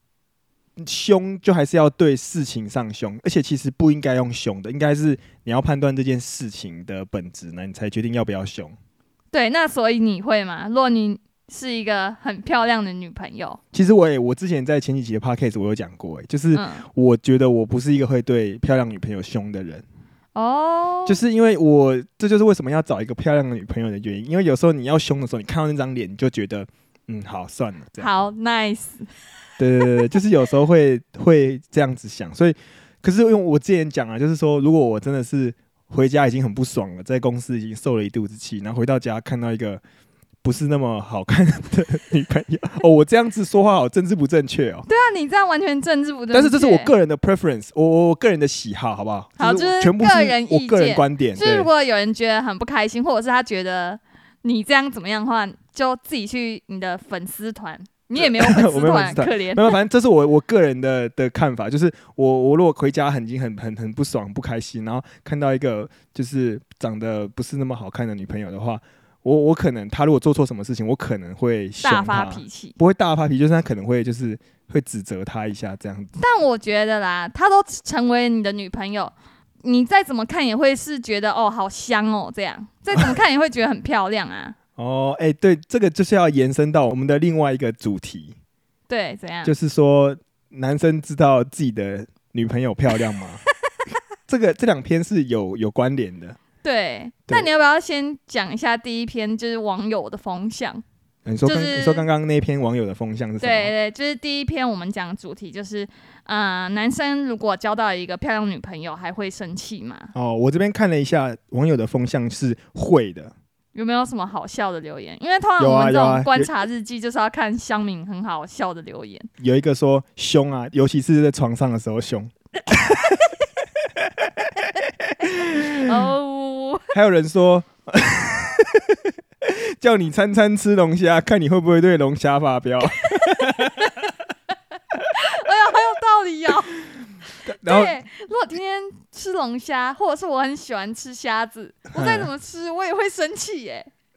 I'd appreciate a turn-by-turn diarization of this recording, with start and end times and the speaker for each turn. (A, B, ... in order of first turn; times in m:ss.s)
0:00.8-0:08.8 A
0:09.3-0:13.6 B
0:13.7-0:19.8 A
0:16.5-0:16.8 B
0:20.4-0:21.2 B
0:21.1-0:28.1 A
0:28.0-0:29.1 B
0:29.6-0:39.8 A
0:40.4-0:44.9 A
0:44.9-0:46.9 B
0:46.3-0:51.7 A
0:49.4-0:59.8 B
0:58.2-1:16.1 A
1:11.8-1:12.8 B
1:16.2-1:24.6 B
1:24.8-1:28.4 A
1:28.9-1:29.5 B
1:29.4-1:33.4 A
1:34.3-1:36.4 A
1:36.6-1:40.8 B
1:41.3-1:43.7 A
1:41.4-1:42.0 B
1:43.4-1:50.1 B
1:50.2-1:53.3 A
1:53.7-1:59.3 B
1:55.6-1:56.5 A
1:59.4-2:03.0 A
2:05.3-2:05.8 A
2:05.8-2:06.9 B
2:06.9-2:13.9 A
2:13.6-2:13.9 B
2:15.2-2:16.8 B
2:17.5-2:18.0 A
2:17.6-2:23.9 B
2:21.9-2:22.3 A